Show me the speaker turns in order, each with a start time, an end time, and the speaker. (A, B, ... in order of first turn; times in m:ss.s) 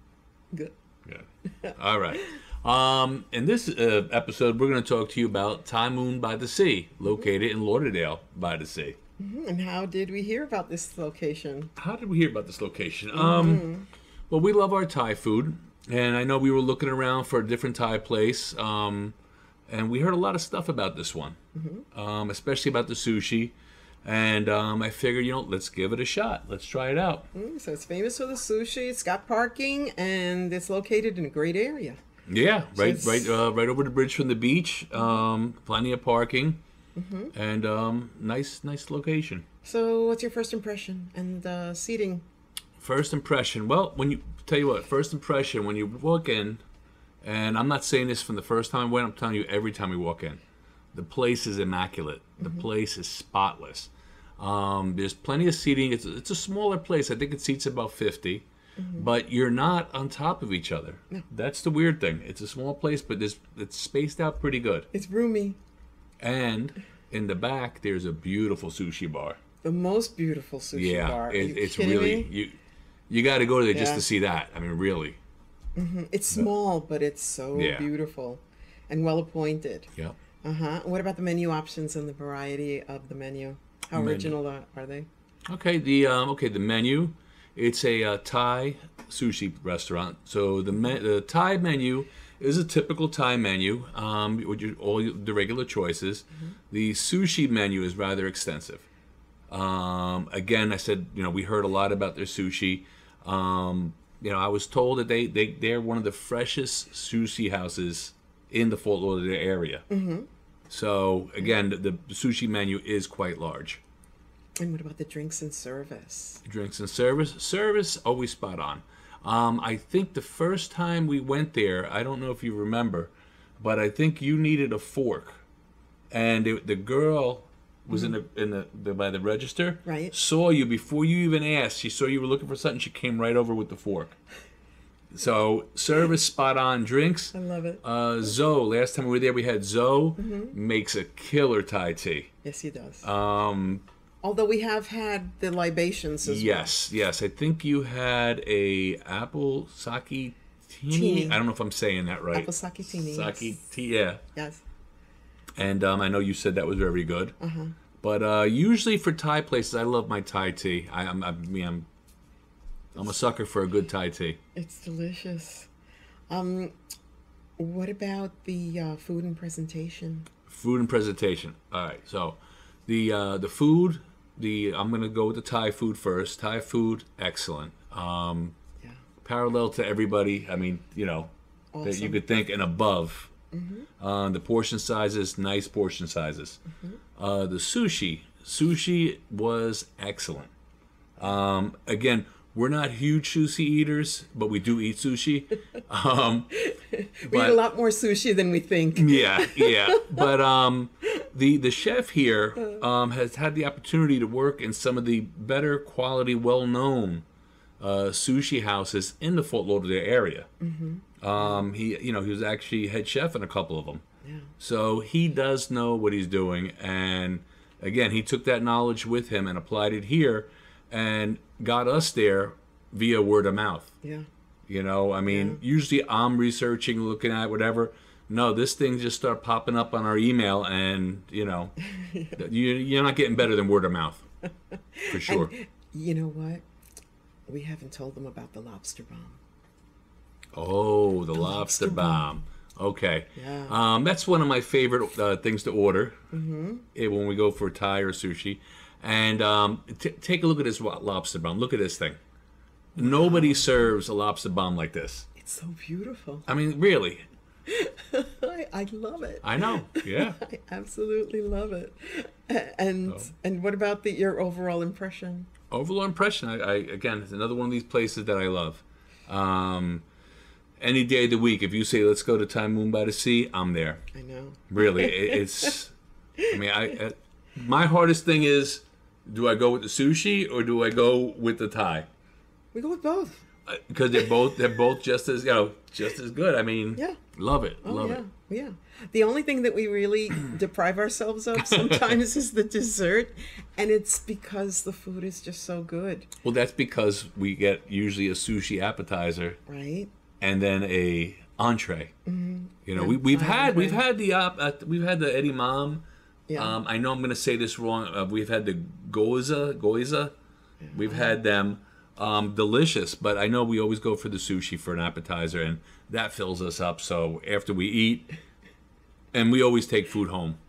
0:01.0-0:09.0 A
0:09.2-0:11.7 B
0:11.8-0:13.7 A
0:13.1-0:13.9 B
0:14.3-0:19.1 A
0:19.7-0:21.4 A
0:21.5-0:21.8 B
0:21.9-0:27.3 A
0:27.3-0:32.0 B
0:32.3-0:36.6 A
0:32.7-0:33.3 B
0:36.9-0:37.3 B
0:37.3-0:39.4 A
0:39.6-0:42.2 B
0:42.8-0:46.6 A
0:47.2-0:50.4 A
0:50.9-0:58.4 A
0:52.4-0:52.7 B
0:58.8-0:59.1 B
0:59.0-1:04.9 A
1:04.9-1:05.6 B
1:06.2-1:09.4 A
1:09.6-1:12.3 B
1:10.7-1:12.6 A
1:13.1-1:15.2 A
1:13.7-1:14.0 B
1:15.8-1:19.9 B
1:17.5-1:17.9 A
1:20.4-1:25.1 B
1:23.9-1:24.3 A
1:25.5-1:38.8 A
1:39.5-1:49.8 A
1:49.9-1:50.3 B
1:50.7-1:53.8 A
1:54.6-1:56.4 B
1:56.4-2:05.4 A
2:06.1-2:14.1 A
2:09.8-2:10.1 B
2:15.1-2:22.3 A
2:17.3-2:17.8 B
2:20.2-2:20.5 B
2:22.4-2:23.0 B
2:23.0-2:23.8 A
2:24.2-2:26.7 B
2:26.2-2:34.2 A
2:30.9-2:31.4 B
2:32.3-2:33.6 B
2:34.3-2:34.6 B
2:35.6-2:37.4 A
2:37.4-2:37.7 B
2:38.0-2:41.9 A
2:43.0-2:44.4 A
2:44.5-2:45.7 B
2:46.3-2:46.7 B
2:47.6-2:50.3 B
2:50.5-2:58.5 A
2:59.2-3:01.3 A
3:01.7-3:02.2 B
3:01.8-3:03.3 A
3:03.5-3:03.9 B
3:04.0-3:06.6 A
3:07.2-3:10.5 A
3:11.2-3:16.5 A
3:16.6-3:20.3 B
3:17.3-3:17.6 A
3:18.9-3:27.2 A
3:27.8-3:30.5 A
3:30.6-3:31.6 B
3:31.2-3:34.0 A
3:34.2-3:34.5 B
3:34.6-3:43.9 A
3:44.7-3:51.7 A
3:45.3-3:45.6 B
3:51.8-3:52.3 B
3:52.3-3:54.2 A
3:55.0-3:56.6 B
3:55.1-3:55.5 A
3:57.5-3:59.4 B
4:00.5-4:06.2 A
4:01.3-4:02.3 B
4:03.4-4:03.8 B
4:06.3-4:06.8 B
4:06.9-4:12.2 A
4:12.9-4:13.9 B
4:13.0-4:15.2 A
4:15.4-4:16.5 B
4:16.5-4:17.2 A
4:17.7-4:25.5 B
4:19.4-4:20.4 A
4:25.7-4:30.0 A
4:30.8-4:34.0 A
4:34.1-4:35.7 B
4:34.7-4:35.9 A
4:36.5-4:42.1 A
4:42.7-4:43.4 B
4:43.6-4:48.2 A
4:47.8-4:56.3 B
4:51.7-4:52.0 A
4:56.4-4:59.6 A
4:59.7-5:00.1 B
5:00.4-5:02.1 A
5:02.2-5:04.0 B
5:02.8-5:06.0 A
5:06.5-5:06.8 B
5:06.5-5:10.3 A
5:10.8-5:11.4 B
5:10.9-5:18.3 A
5:19.3-5:20.6 A